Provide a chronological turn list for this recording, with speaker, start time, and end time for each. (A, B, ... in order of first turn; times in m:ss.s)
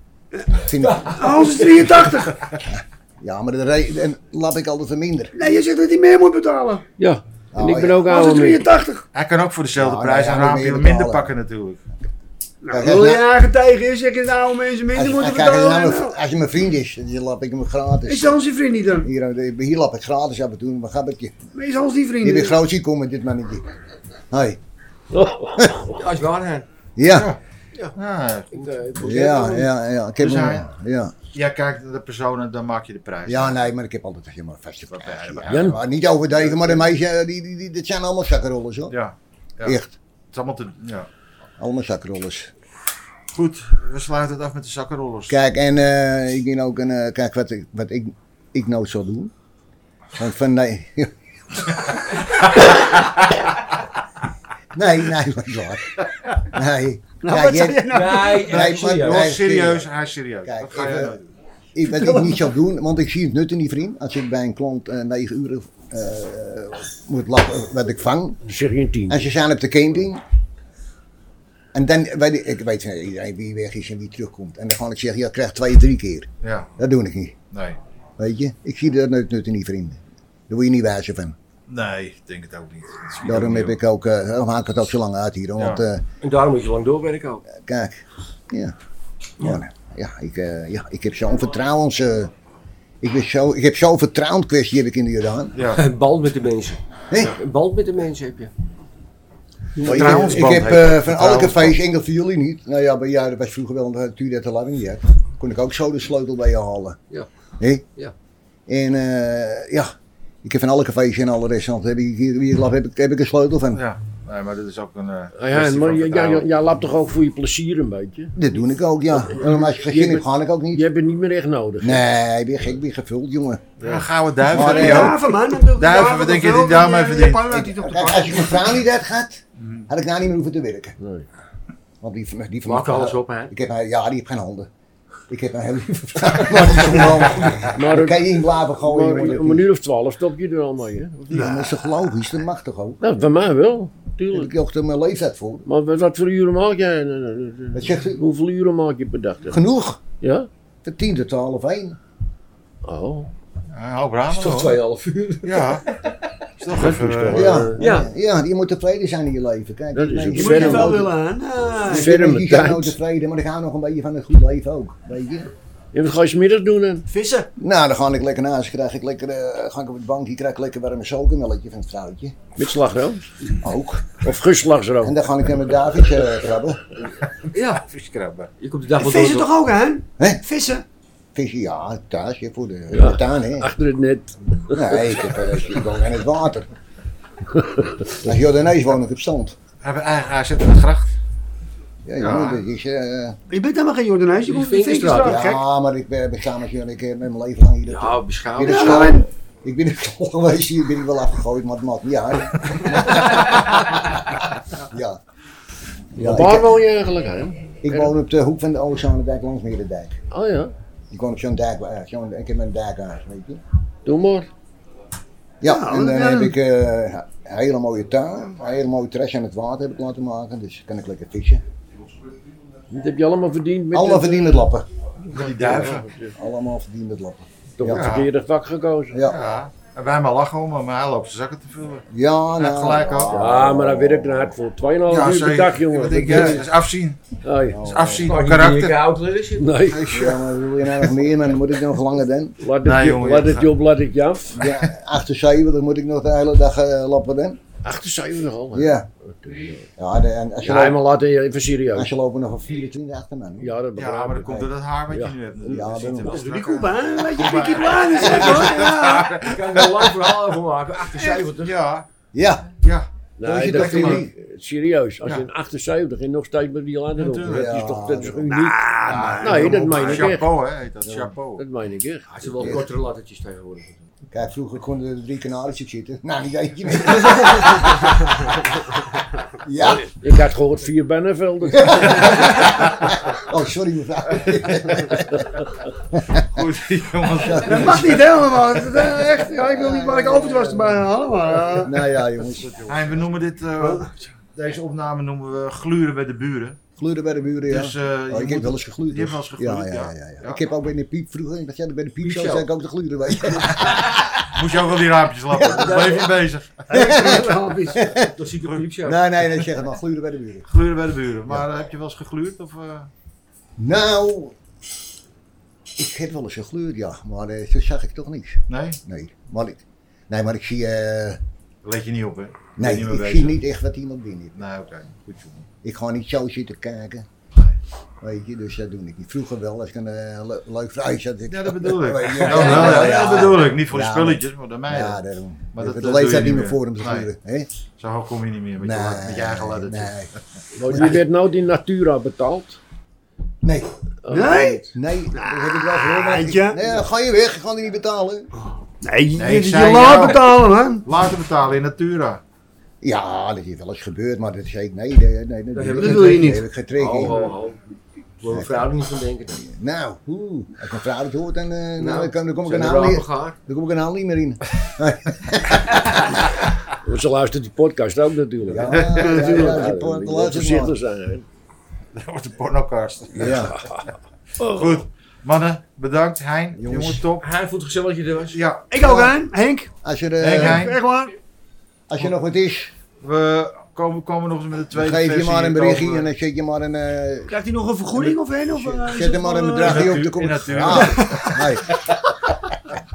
0:00.5-0:01.1 A
0:00.7-0:02.1 B
0:01.1-0:02.5 C
0:02.6-0:05.4 A
0:05.3-0:06.8 C
0:07.0-0:08.6 D
0:07.5-0:08.1 A
0:08.0-0:09.1 C
0:09.1-0:11.8 E
0:09.8-0:11.3 A
0:12.6-0:16.2 C
0:12.7-0:13.3 A
0:14.9-0:18.4 A
0:18.1-0:19.1 C
0:19.0-0:21.3 A
0:21.5-0:22.6 C
0:22.2-0:23.7 A
0:24.3-0:24.6 A
0:25.1-0:26.0 D
0:25.6-0:25.8 A
0:25.9-0:26.6 B
0:27.0-0:27.3 A
0:27.1-0:27.4 E
0:27.9-0:28.7 E
0:28.5-0:29.7 D
0:29.0-0:31.1 A
0:30.2-0:30.6 E
0:31.3-0:33.6 E
0:33.2-0:38.9 A
0:34.9-0:35.8 E
0:35.5-0:35.8 D
0:38.9-0:39.8 E
0:39.6-0:40.0 A
0:40.3-0:41.1 E
0:41.6-0:42.5 A
0:43.3-0:45.4 E
0:45.3-0:49.3 A
0:50.2-0:52.0 A
0:52.3-0:52.6 E
0:54.7-0:59.8 A
0:57.2-0:58.5 C
0:57.9-0:59.4 B
0:58.5-1:01.2 E
1:00.4-1:01.2 A
1:01.7-1:08.4 A
1:01.9-1:02.4 C
1:08.4-1:09.3 D
1:09.1-1:10.2 A
1:11.7-1:17.4 A
1:16.4-1:16.7 E
1:17.5-1:17.8 E
1:18.2-1:21.4 A
1:21.7-1:23.8 E
1:23.2-1:26.0 A
1:25.6-1:25.8 E
1:26.2-1:27.4 B
1:27.6-1:28.7 A
1:29.4-1:32.3 A
1:33.0-1:35.6 A
1:35.6-1:35.8 E
1:35.7-1:38.5 B
1:39.8-1:47.0 A
1:39.8-1:41.8 E
1:47.6-1:47.8 A
1:48.7-1:49.9 A
1:50.4-1:53.8 A
1:53.7-1:56.5 E
1:55.3-1:58.3 D
1:58.3-2:00.8 A
1:59.1-2:02.1 D
2:01.8-2:03.7 A
2:03.8-2:04.1 D
2:03.8-2:05.2 E
2:04.5-2:05.2 A
2:04.5-2:08.7 C
2:05.7-2:07.5 E
2:07.5-2:11.0 A
2:11.0-2:11.2 D
2:12.0-2:14.7 A
2:12.6-2:13.5 B
2:15.3-2:19.7 A
2:17.7-2:18.2 D
2:18.8-2:21.7 D
2:21.3-2:23.0 A
2:21.3-2:21.7 C
2:23.0-2:24.5 D
2:24.3-2:25.6 A
2:25.6-2:29.6 D
2:27.7-2:28.2 A
2:29.5-2:30.0 A
2:30.2-2:30.5 D
2:30.8-2:32.0 A
2:32.8-2:33.3 D
2:33.7-2:34.8 E
2:34.3-2:36.1 B
2:35.4-2:35.8 E
2:36.6-2:37.6 E
2:36.7-2:38.0 D
2:37.3-2:41.1 A
2:37.8-2:38.1 B
2:39.9-2:41.0 D
2:40.3-2:42.1 C
2:41.8-2:45.5 A
2:41.9-2:42.9 D
2:45.9-2:47.1 D
2:47.1-2:47.5 C
2:47.6-2:52.4 A
2:52.6-2:53.3 D
2:53.6-2:54.2 A
2:54.2-2:55.2 D
2:55.0-2:56.8 A
2:57.5-2:57.8 B
2:57.5-2:58.5 E
2:58.6-2:59.5 B
2:59.0-3:00.8 C
3:01.3-3:03.7 A
3:02.9-3:05.4 D
3:04.7-3:06.7 A
3:07.5-3:08.1 D
3:08.1-3:09.6 A
3:09.8-3:11.1 E
3:12.0-3:13.4 A
3:12.2-3:12.6 E
3:13.5-3:15.6 C
3:14.4-3:15.4 B
3:15.1-3:25.2 A
3:17.9-3:19.2 B
3:18.6-3:19.2 C
3:26.1-3:26.7 A
3:26.2-3:28.1 D
3:27.8-3:30.2 A
3:30.3-3:30.7 D
3:31.1-3:33.6 A
3:34.0-3:34.5 D
3:35.6-3:41.6 A
3:35.6-3:36.5 C
3:42.9-3:44.6 D
3:43.9-3:44.8 A
3:45.3-3:46.1 E
3:45.3-3:46.3 D
3:45.4-3:46.0 B
3:46.3-3:48.1 A
3:47.8-3:49.2 D
3:47.9-3:48.3 E
3:49.1-3:49.4 A
3:49.2-3:53.4 E
3:52.1-3:54.5 A
3:53.3-3:56.7 D
3:55.1-3:57.2 E
3:56.2-3:56.7 A
3:57.4-3:57.9 D
3:57.7-3:58.3 A
3:57.8-3:59.0 E
3:58.1-3:59.8 B
3:59.6-4:00.4 D
3:59.8-4:00.5 E
4:00.1-4:02.6 A
4:02.6-4:04.7 D
4:02.8-4:03.7 E
4:04.5-4:07.6 A
4:04.6-4:04.9 E
4:07.8-4:09.9 D
4:08.7-4:09.1 A
4:10.0-4:11.1 A
4:10.6-4:12.1 D
4:11.9-4:13.7 A
4:13.6-4:14.6 D
4:13.9-4:20.1 E
4:15.1-4:15.4 D
4:15.7-4:17.0 B
4:15.7-4:16.3 A
4:16.3-4:19.4 C
4:18.3-4:21.8 B
4:21.2-4:22.1 E
4:22.3-4:22.7 A
4:22.8-4:23.1 E
4:23.4-4:30.5 D
4:23.4-4:24.3 A
4:23.6-4:24.2 E
4:27.2-4:27.7 E
4:27.4-4:28.5 A
4:28.5-4:29.8 C
4:29.1-4:29.6 A
4:29.1-4:31.6 E
4:30.0-4:30.3 B
4:31.0-4:31.3 A
4:31.6-4:32.8 D
4:32.3-4:34.1 B
4:32.6-4:32.8 A
4:34.3-4:38.5 A
4:39.6-4:40.1 A
4:39.8-4:42.4 D
4:41.8-4:45.5 A
4:46.1-4:46.6 A
4:46.4-4:48.3 E
4:47.4-4:48.3 A
4:47.6-4:52.1 C
4:49.4-4:50.9 A
4:51.8-4:53.2 A
4:52.8-4:56.8 E
4:57.0-5:04.4 A
4:57.7-5:00.6 E
5:02.2-5:02.7 B
5:04.5-5:06.9 E
5:05.6-5:06.1 A
5:05.7-5:06.3 C
5:06.9-5:08.1 C
5:06.9-5:08.3 A
5:08.1-5:09.2 B
5:09.0-5:10.6 A
5:10.7-5:13.1 E
5:13.8-5:14.6 A
5:16.0-5:21.4 A
5:18.7-5:19.0 E
5:21.8-5:23.6 E
5:22.8-5:24.6 A
5:24.6-5:25.7 E
5:25.8-5:27.3 A
5:28.2-5:37.7 A
5:31.5-5:35.2 E
5:32.4-5:33.4 B
5:35.7-5:37.3 E
5:38.0-5:40.1 E
5:38.8-5:40.3 A
5:40.8-5:42.8 D
5:40.8-5:41.2 A
5:43.6-5:48.5 A
5:44.2-5:44.8 D
5:44.3-5:46.9 C
5:49.0-5:51.1 C
5:49.3-5:52.4 E
5:53.0-5:57.5 A
5:55.7-5:57.8 B
5:55.9-5:56.6 C
5:58.4-5:59.6 B
5:58.5-5:58.9 A
5:59.5-6:06.4 A
6:02.0-6:03.6 B
6:06.9-6:11.4 D
6:08.7-6:11.0 A
6:08.9-6:09.3 E
6:09.1-6:09.8 C
6:12.1-6:13.8 E
6:13.3-6:13.8 A
6:13.4-6:14.9 D
6:14.6-6:17.5 E
6:16.8-6:17.2 A
6:17.4-6:18.6 B
6:18.5-6:18.9 E
6:18.9-6:19.9 C
6:19.0-6:19.3 A
6:20.0-6:20.9 A
6:20.4-6:21.0 E
6:20.5-6:21.3 C
6:22.1-6:22.9 A
6:23.2-6:26.3 E
6:24.9-6:27.5 A
6:27.5-6:30.2 C
6:28.1-6:32.1 A
6:29.8-6:31.7 E
6:30.9-6:31.6 C